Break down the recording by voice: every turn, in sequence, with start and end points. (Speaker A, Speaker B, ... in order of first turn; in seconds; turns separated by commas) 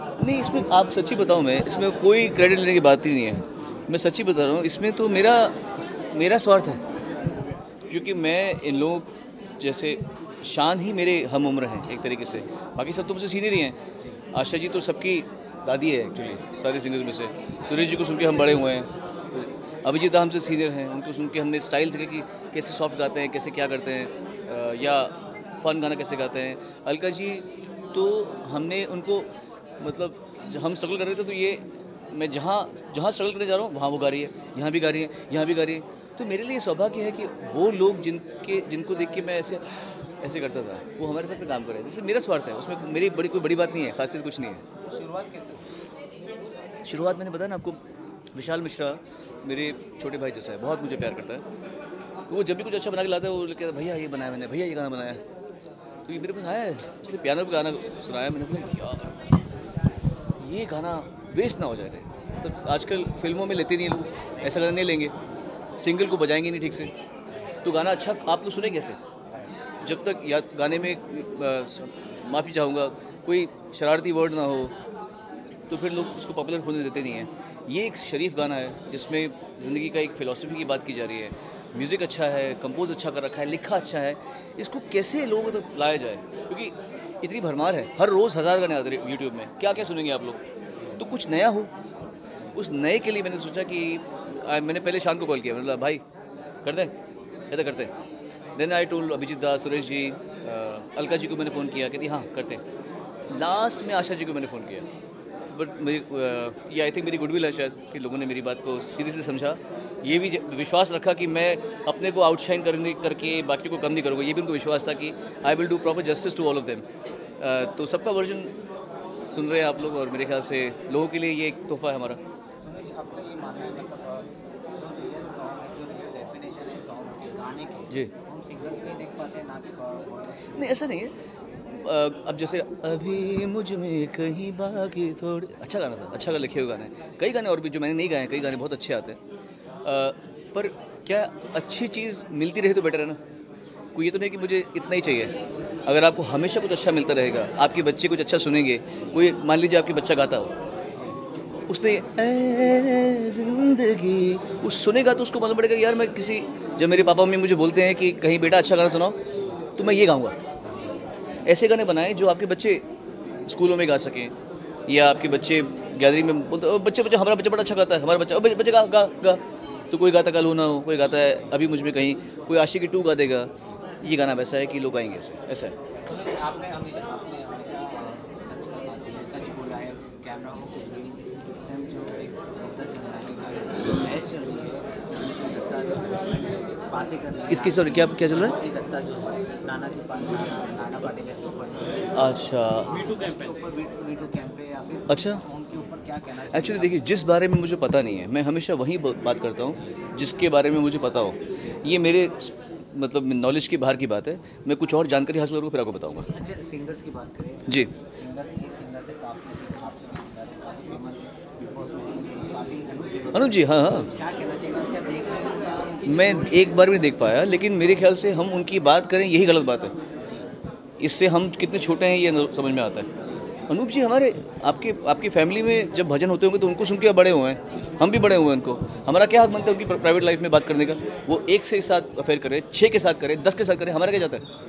Speaker A: 0.2-6.8, Speaker A: 7.9-13.8, Speaker A: 14.3-44.6, Speaker B: 44.8-45.7, Speaker A: 46.8-47.8, Speaker A: 48.3-51.5, Speaker A: 52.3-55.2, Speaker A: 56.0-59.3, Speaker A: 60.4-65.1, Speaker A: 65.8-66.9, Speaker A: 67.6-69.0, Speaker A: 69.8-74.8, Speaker A: 75.7-90.4, Speaker A: 91.0-91.7, Speaker A: 92.5-96.0, Speaker A: 96.6-96.9, Speaker A: 97.5-97.9, Speaker A: 98.6-102.6, Speaker A: 103.3-104.9, Speaker A: 105.5-116.8, Speaker A: 117.4-118.5, Speaker A: 119.3-122.2, Speaker B: 122.6-130.8, Speaker A: 130.5-131.1, Speaker A: 131.7-139.2, Speaker A: 139.8-143.2, Speaker A: 143.9-145.3, Speaker A: 145.8-150.5, Speaker A: 151.7-159.2, Speaker A: 159.8-160.3, Speaker A: 161.4-162.8, Speaker A: 163.4-164.3, Speaker A: 164.9-173.5, Speaker A: 174.0-175.7, Speaker B: 175.9-197.1, Speaker A: 187.5-188.5, Speaker A: 192.1-193.1, Speaker A: 195.1-195.4, Speaker A: 196.5-206.3, Speaker B: 206.3-216.6, Speaker A: 207.7-207.9, Speaker A: 213.3-214.1, Speaker A: 216.1-219.9, Speaker B: 220.2-220.6, Speaker A: 221.0-223.1, Speaker B: 223.2-223.5, Speaker A: 223.7-234.4